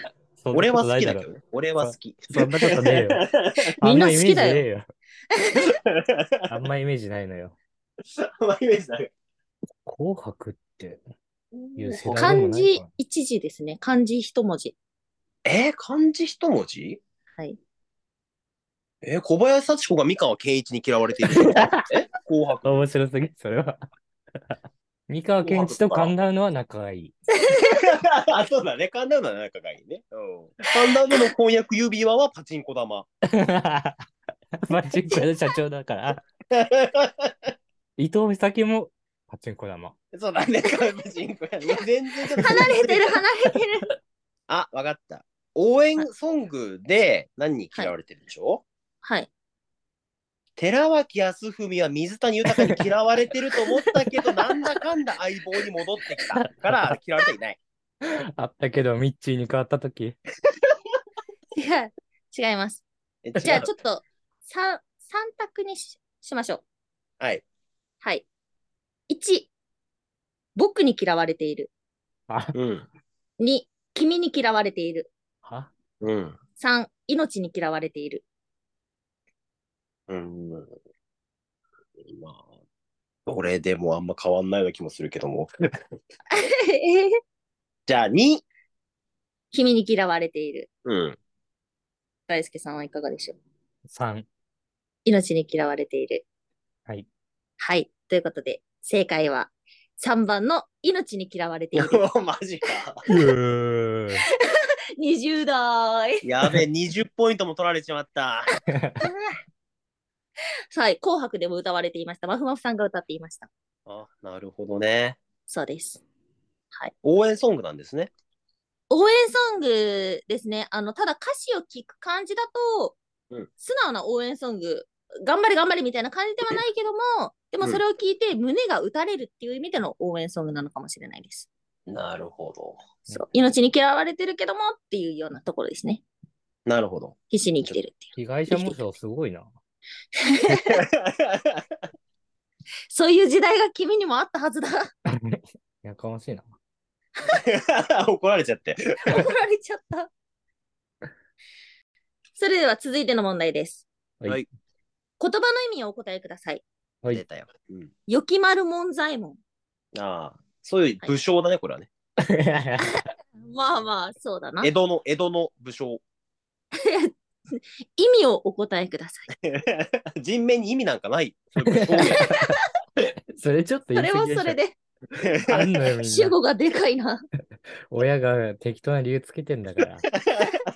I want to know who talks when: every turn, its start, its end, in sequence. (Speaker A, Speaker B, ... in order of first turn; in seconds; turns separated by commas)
Speaker A: 0.4-3.2, Speaker B: 0.5-3.7, Speaker A: 3.8-4.9, Speaker C: 3.8-4.6, Speaker C: 5.3-5.7, Speaker B: 5.9-6.5, Speaker A: 6.5-7.6, Speaker B: 8.1-9.1, Speaker A: 9.9-11.0, Speaker C: 11.5-14.8, Speaker A: 11.8-12.9, Speaker B: 15.4-17.0, Speaker C: 17.3-17.6, Speaker B: 19.0-22.9, Speaker A: 21.3-21.9, Speaker A: 22.6-23.8, Speaker A: 25.1-27.1, Speaker B: 25.4-26.1, Speaker C: 27.3-27.9, Speaker B: 27.7-33.1, Speaker A: 33.3-34.0, Speaker A: 34.6-36.2, Speaker B: 36.5-37.5, Speaker A: 38.0-40.0, Speaker B: 40.1-43.2, Speaker C: 42.4-43.9, Speaker B: 44.5-48.6, Speaker C: 49.0-49.3, Speaker B: 50.6-57.6, Speaker A: 56.3-56.7, Speaker A: 58.1-60.2, Speaker C: 61.6-62.9, Speaker B: 63.2-63.7, Speaker C: 63.4-66.6, Speaker C: 68.0-68.3, Speaker C: 69.1-69.5, Speaker C: 70.5-71.7, Speaker A: 72.3-72.5, Speaker B: 72.5-72.9, Speaker C: 73.4-75.1, Speaker A: 75.4-75.7, Speaker B: 76.0-76.4, Speaker C: 76.6-78.2, Speaker B: 80.1-80.7, Speaker B: 82.0-82.5, Speaker B: 83.3-85.5, Speaker C: 86.3-87.2, Speaker B: 87.9-88.4, Speaker C: 89.5-90.7, Speaker B: 90.8-91.2, Speaker C: 92.3-93.4, Speaker A: 93.9-94.3, Speaker C: 95.1-96.3, Speaker C: 97.6-102.0, Speaker B: 101.8-103.0, Speaker A: 103.1-104.2, Speaker C: 104.4-106.2, Speaker B: 106.2-108.5, Speaker C: 109.0-109.4, Speaker C: 110.7-113.5, Speaker B: 113.9-115.2, Speaker C: 115.5-116.0, Speaker B: 117.0-118.1, Speaker C: 118.9-123.0, Speaker C: 123.6-131.5, Speaker B: 131.9-132.8, Speaker C: 133.1-136.0, Speaker B: 136.7-137.8, Speaker C: 137.3-138.8, Speaker A: 138.2-139.5, Speaker C: 140.2-140.8, Speaker B: 140.7-141.6, Speaker C: 142.9-144.9, Speaker A: 145.1-146.5, Speaker B: 147.4-149.3, Speaker C: 149.1-150.1, Speaker C: 152.4-153.9, Speaker C: 155.2-156.6, Speaker B: 157.1-157.9, Speaker C: 158.1-159.4, Speaker B: 159.9-161.9, Speaker A: 162.3-163.1, Speaker C: 163.4-164.7, Speaker B: 164.6-166.0, Speaker C: 166.8-169.3, Speaker B: 169.5-172.3, Speaker A: 171.6-172.6, Speaker C: 172.0-172.5, Speaker A: 173.3-174.6, Speaker C: 173.9-174.8, Speaker B: 175.2-175.7, Speaker A: 175.5-176.3, Speaker C: 176.0-177.2, Speaker A: 177.9-180.1